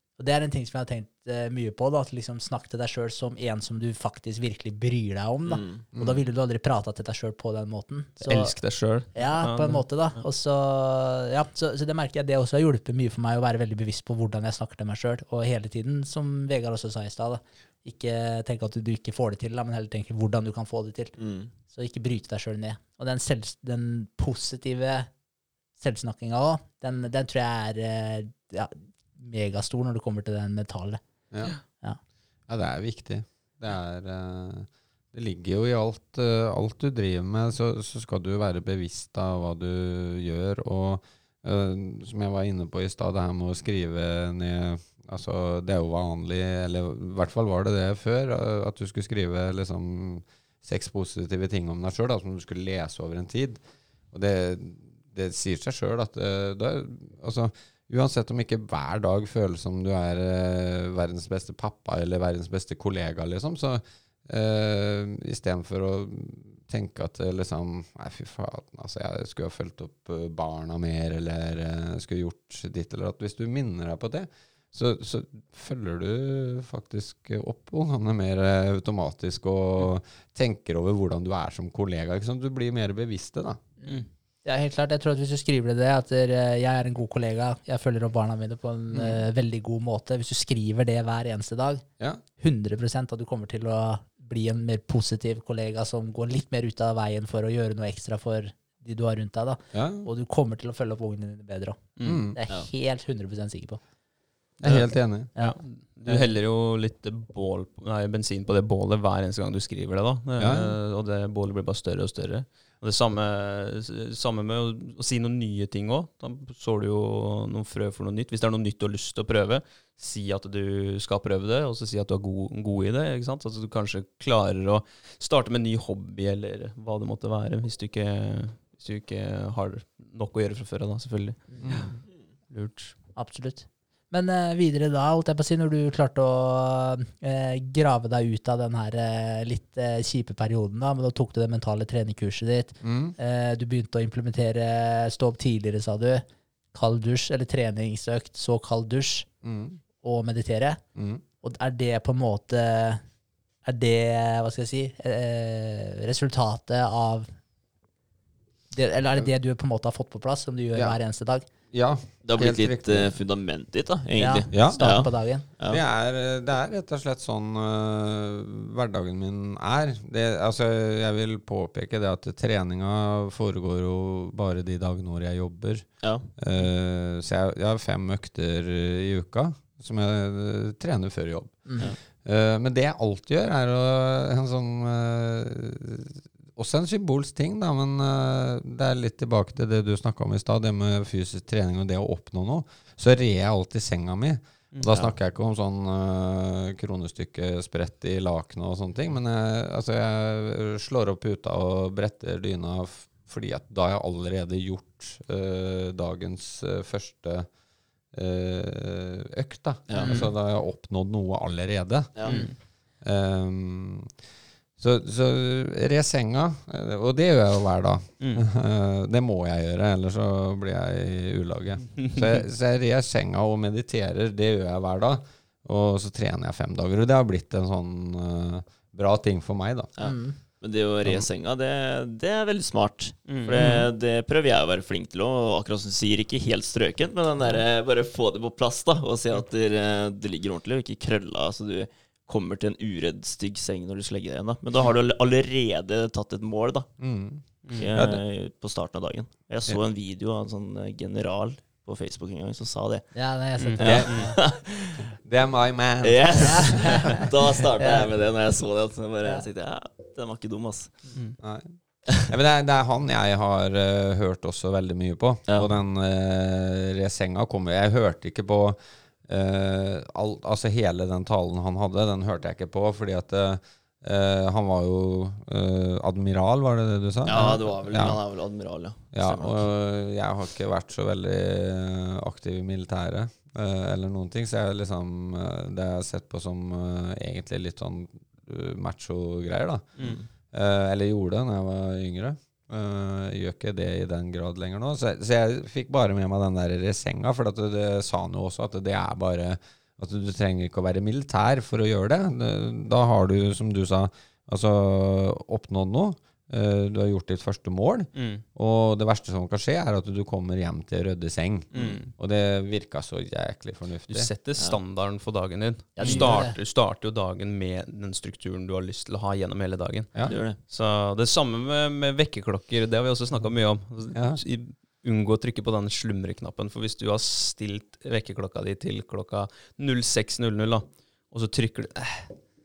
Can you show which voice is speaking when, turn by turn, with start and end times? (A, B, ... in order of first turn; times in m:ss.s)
0:00.2-0:08.5 A
0:05.4-0:05.9 B
0:08.2-0:09.8 C
0:09.1-0:21.1 A
0:21.2-0:21.5 B
0:21.7-0:25.1 A
0:25.8-0:31.0 A
0:32.5-0:53.6 D
0:54.1-1:23.6 D
1:23.8-1:31.8 A
1:28.9-1:29.2 D
1:32.4-1:43.8 A
1:39.7-1:40.1 D
1:42.0-1:42.3 C
1:42.0-1:42.4 D
1:44.6-1:45.3 D
1:45.4-1:46.3 A
1:45.4-2:11.9 C
1:50.4-1:50.8 D
2:11.5-2:11.9 A
2:11.6-2:11.9 D
2:12.5-2:13.0 C
2:13.1-2:29.3 A
2:22.8-2:23.1 D
2:29.4-2:29.8 D
2:30.0-2:30.8 A
2:31.0-2:31.2 D
2:31.4-2:33.0 A
2:33.6-2:37.3 A
2:38.7-2:41.5 A
2:41.7-2:43.1 D
2:42.2-2:45.8 B
2:44.2-2:45.4 A
2:44.5-2:45.1 D
2:45.6-3:27.5 D
2:56.0-2:56.3 B
3:01.7-3:01.9 A
3:14.8-3:15.1 B
3:28.1-3:34.1 D
3:29.9-3:30.2 B
3:30.0-3:30.3 A
3:32.1-3:32.4 B
3:32.3-3:32.5 C
3:34.8-3:49.9 D
3:38.2-3:38.4 C
3:41.9-3:42.4 C
3:50.0-4:06.9 B
3:50.0-3:50.4 A
3:53.3-3:53.7 C
4:07.0-4:08.2 D
4:07.6-4:07.9 C
4:07.7-4:13.1 B
4:13.1-4:14.4 A
4:13.6-4:14.3 C
4:13.8-4:15.1 B
4:13.8-4:14.4 D
4:15.2-4:17.0 D
4:16.0-4:21.0 B
4:16.4-4:17.3 A
4:17.8-4:18.1 A
4:21.4-4:38.2 D
4:37.3-4:39.7 B
4:39.1-5:14.3 D
4:50.0-4:50.3 B
5:08.1-5:08.4 C
5:11.7-5:12.0 B
5:11.7-5:12.1 C
5:14.1-5:32.4 C
5:16.0-5:16.6 A
5:16.0-5:16.4 D
5:20.3-5:20.6 B
5:24.1-5:24.4 D